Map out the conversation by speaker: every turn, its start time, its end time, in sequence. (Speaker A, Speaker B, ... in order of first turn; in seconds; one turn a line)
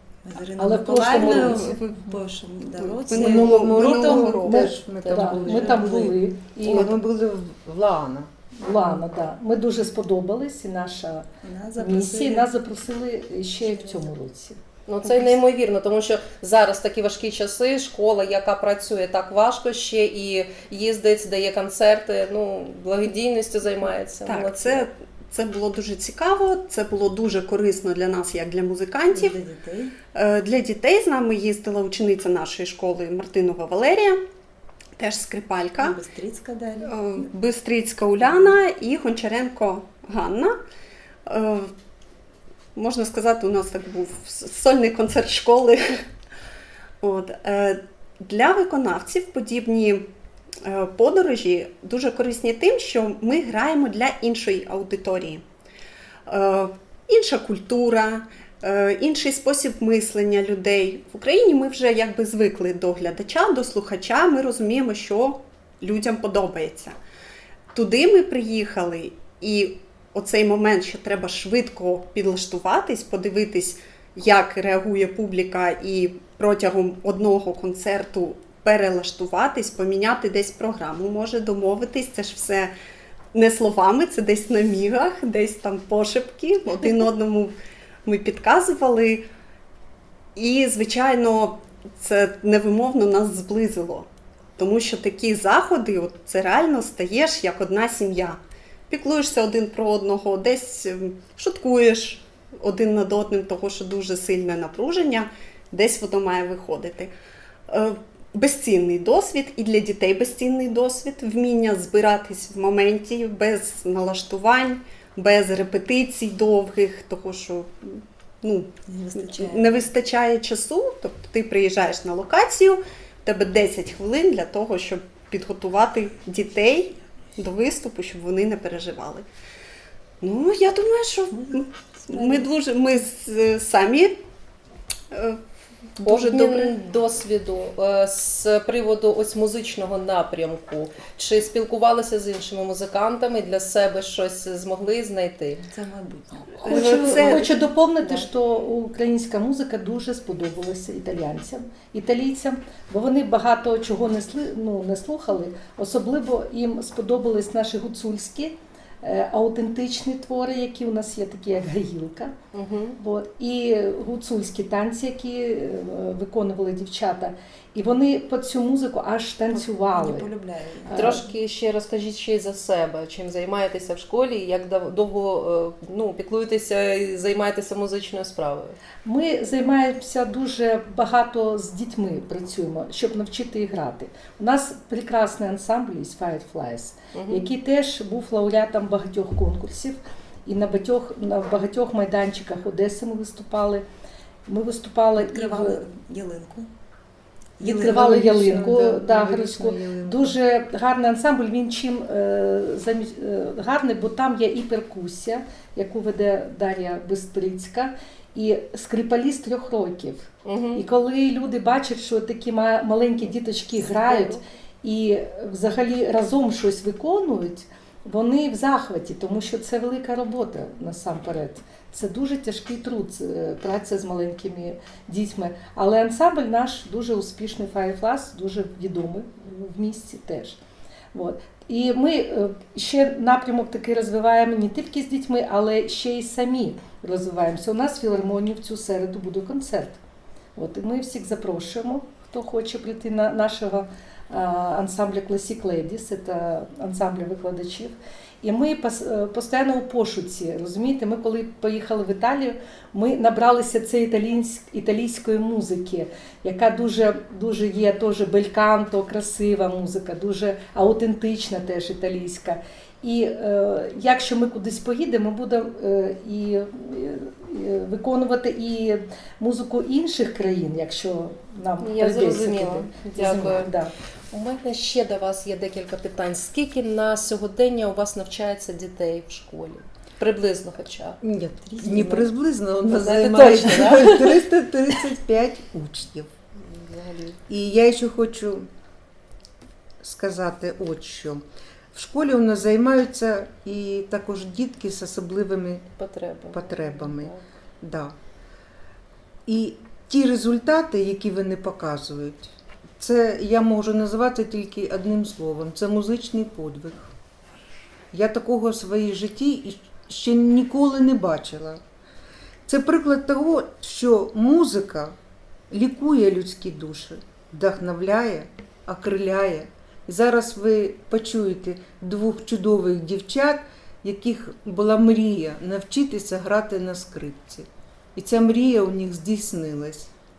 Speaker A: 0.2-3.6
Speaker B: 0.6-1.8
Speaker C: 0.8-2.0
Speaker C: 2.8-4.7
Speaker D: 3.1-8.3
Speaker B: 3.9-6.9
Speaker E: 4.8-5.9
Speaker B: 8.6-14.6
Speaker A: 11.4-12.5
Speaker A: 13.6-14.0
Speaker E: 14.9-24.9
Speaker C: 24.2-29.4
Speaker A: 29.1-30.0
Speaker C: 30.1-34.2
Speaker C: 35.0-36.0
Speaker A: 35.8-37.3
Speaker C: 36.8-40.5
Speaker C: 41.2-41.7
Speaker C: 42.7-46.0
Speaker C: 47.0-50.0
Speaker C: 50.6-55.4
Speaker C: 56.3-66.9
Speaker C: 67.7-82.7
Speaker C: 83.3-87.5
Speaker C: 88.0-89.2
Speaker C: 90.3-94.1
Speaker C: 94.6-107.1
Speaker C: 107.7-129.2
Speaker A: 118.8-119.8
Speaker C: 130.2-134.1
Speaker A: 132.1-132.5
Speaker C: 135.1-135.4
Speaker C: 136.0-136.7
Speaker E: 136.0-145.6
Speaker A: 145.7-148.2
Speaker B: 146.6-162.3
Speaker C: 146.6-147.5
Speaker E: 162.5-163.0
Speaker B: 163.0-170.3
Speaker A: 169.5-170.9
Speaker B: 170.8-171.2
Speaker E: 170.9-178.8
Speaker B: 179.0-193.8
Speaker E: 187.1-187.4
Speaker B: 194.4-195.9
Speaker A: 195.2-196.7
Speaker D: 197.6-200.4
Speaker B: 197.6-230.6
Speaker E: 210.4-210.8
Speaker E: 214.0-214.4
Speaker B: 231.1-240.0
Speaker B: 240.5-273.9
Speaker E: 271.8-273.7
Speaker E: 274.3-281.2
Speaker D: 281.2-286.3
Speaker A: 281.6-282.3
Speaker E: 282.9-284.4
Speaker E: 286.6-287.4
Speaker D: 287.5-288.7
Speaker D: 290.0-291.4
Speaker D: 291.9-295.9
Speaker E: 296.0-297.4
Speaker D: 296.5-298.1
Speaker D: 299.5-307.1
Speaker D: 308.1-311.8
Speaker D: 312.7-315.1
Speaker D: 315.7-330.1